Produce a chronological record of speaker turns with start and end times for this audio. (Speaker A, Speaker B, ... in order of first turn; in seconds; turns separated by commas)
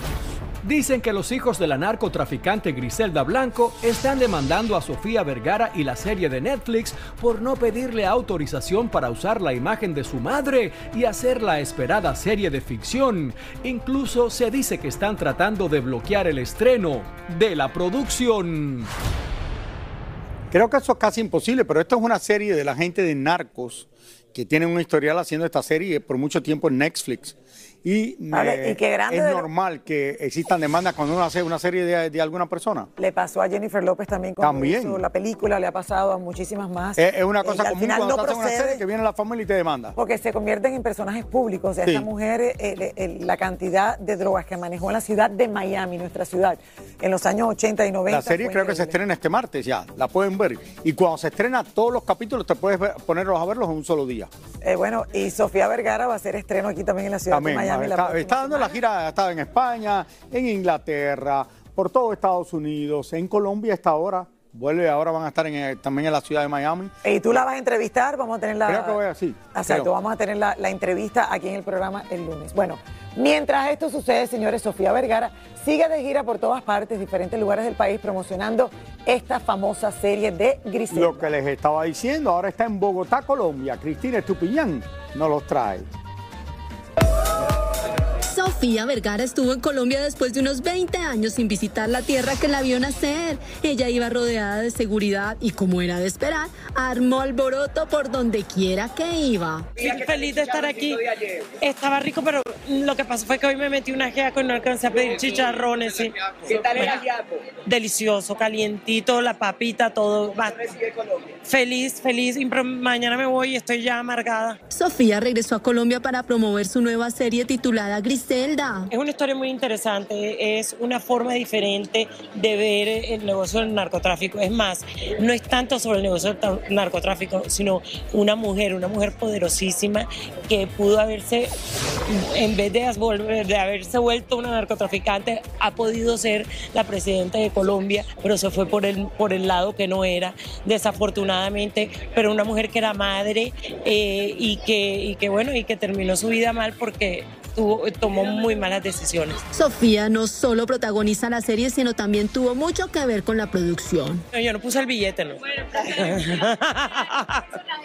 Speaker A: 0.6-18.9, Speaker B: 20.5-32.9, Speaker C: 28.3-29.5, Speaker C: 33.0-38.8, Speaker B: 34.4-35.0, Speaker B: 37.0-40.0, Speaker C: 40.0-49.0, Speaker B: 48.1-54.3, Speaker C: 54.6-58.8, Speaker B: 57.3-66.9, Speaker C: 67.0-69.0, Speaker B: 68.7-69.9, Speaker C: 69.5-81.3, Speaker B: 80.9-85.9, Speaker D: 88.2-99.7, Speaker E: 99.8-107.1, Speaker E: 107.6-110.8, Speaker E: 111.4-114.6, Speaker D: 114.7-118.8, Speaker E: 118.9-131.5, Speaker E: 132.1-149.4, Speaker D: 149.5-154.2, Speaker E: 154.3-157.4